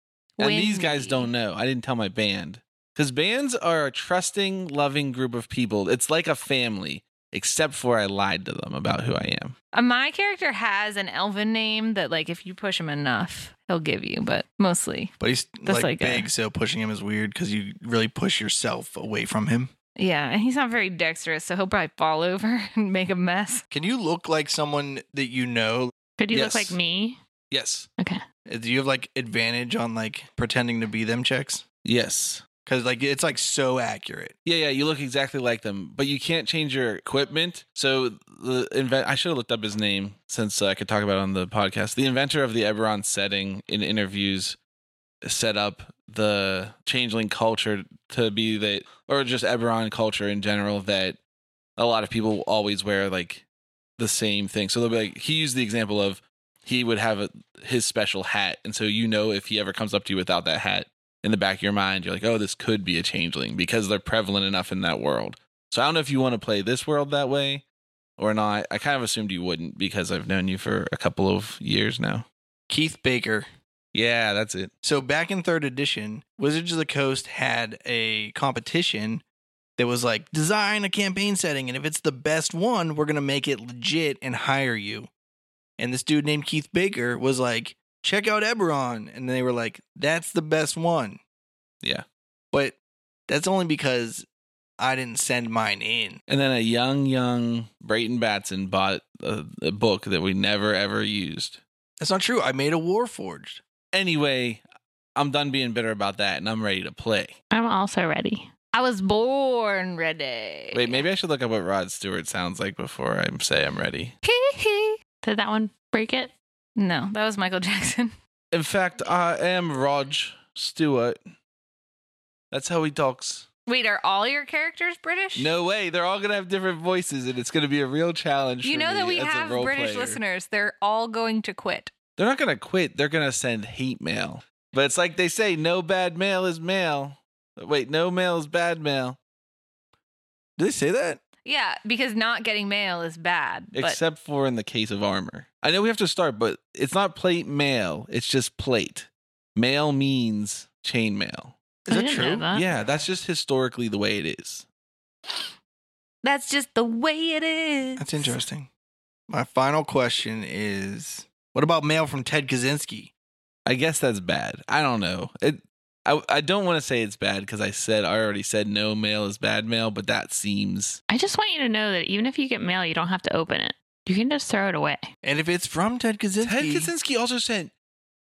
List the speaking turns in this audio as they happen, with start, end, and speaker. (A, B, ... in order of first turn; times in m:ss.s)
0:00.4-0:01.3 A
0:00.4-0:09.6 B
0:09.7-0:16.3 A
0:15.2-0:19.7 C
0:20.0-0:23.6 A
0:23.7-0:25.9 C
0:26.2-0:27.2 D
0:26.3-0:26.7 B
0:27.5-0:27.9 B
0:28.5-0:31.6 C
0:31.8-0:32.5 B
0:32.6-0:34.4 C
0:34.4-0:44.6 B
0:45.2-0:51.2 B
0:51.8-0:53.4 B
0:54.0-1:07.6 B
1:08.2-1:12.3 B
1:12.7-1:13.5 C
1:13.9-1:14.7 B
1:14.8-1:19.2 C
1:19.8-1:25.1 C
1:25.8-1:31.2 C
1:32.5-1:32.8 C
1:33.3-1:34.3 C
1:34.8-1:36.2 C
1:36.3-1:41.6 B
1:42.0-1:43.6 C
1:43.9-1:44.6 B
1:45.2-1:47.4 B
1:47.5-1:48.5 D
1:48.7-1:51.0 A
1:50.7-1:54.1 B
1:54.2-1:55.0 A
1:55.2-1:56.3 D
1:56.8-1:58.2 A
1:58.5-2:01.2 B
2:02.5-2:03.5 B
2:03.7-2:05.5 A
2:05.4-2:10.2 B
2:08.6-2:11.9 A
2:12.2-2:19.2 B
2:20.6-2:21.2 C
2:21.4-2:24.0 A
2:23.7-2:31.6 B
2:31.9-2:32.5 C
2:31.9-2:32.6 D
2:32.5-2:34.7 B
2:36.2-2:38.4 A
2:38.0-2:38.7 C
2:39.3-2:43.1 C
2:43.7-2:51.0 B
2:51.1-2:55.0 D
2:55.2-2:56.9 C
2:56.4-2:57.7 B